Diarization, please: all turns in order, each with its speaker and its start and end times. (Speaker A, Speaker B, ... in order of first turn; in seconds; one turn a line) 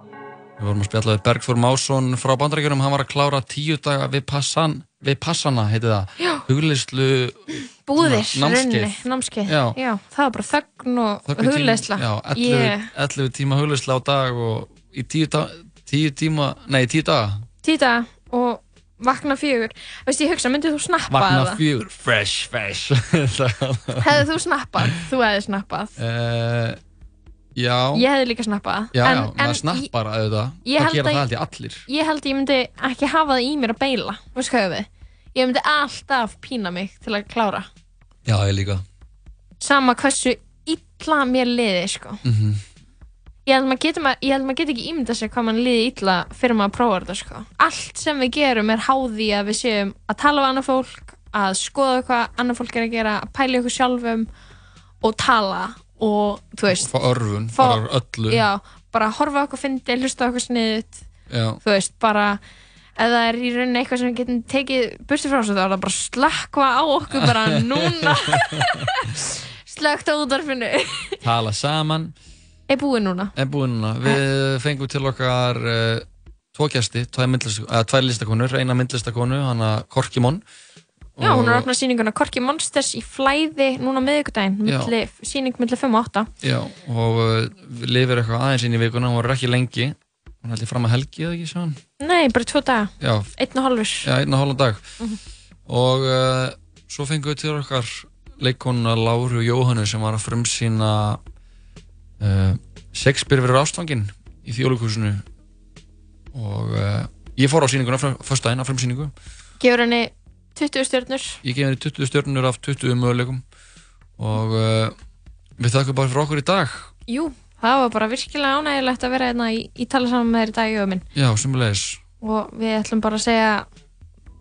Speaker A: 0.6-9.8
Speaker B: 7.8-12.8
Speaker A: 11.3-17.4
Speaker B: 17.6-21.6
Speaker A: 21.1-24.2
Speaker B: 24.0-25.9
Speaker A: 26.0-26.8
Speaker A: 27.6-28.1
Speaker B: 27.9-29.9
Speaker A: 28.9-31.8
Speaker B: 30.6-31.2
Speaker B: 31.9-37.7
Speaker A: 38.2-38.8
Speaker B: 39.6-42.2
Speaker A: 42.2-42.6
Speaker B: 43.5-54.3
Speaker B: 55.0-56.9
Speaker A: 56.8-58.4
Speaker B: 57.5-61.0
Speaker A: 61.3-61.6
Speaker B: 61.6-62.4
Speaker B: 63.0-71.1
Speaker A: 67.1-68.2
Speaker A: 71.2-72.1
Speaker B: 72.7-73.3
Speaker A: 73.3-80.4
Speaker A: 81.2-81.7
Speaker B: 81.2-86.3
Speaker A: 84.6-84.9
Speaker A: 86.4-91.8
Speaker B: 92.0-94.1
Speaker A: 93.0-93.3
Speaker A: 94.0-94.9
Speaker A: 95.7-101.2
Speaker A: 102.2-105.2
Speaker A: 106.3-109.1
Speaker B: 109.6-111.4
Speaker A: 111.4-113.4
Speaker A: 114.2-114.9
Speaker A: 115.6-116.9
Speaker B: 117.1-121.0
Speaker A: 121.1-122.0
Speaker B: 122.2-123.7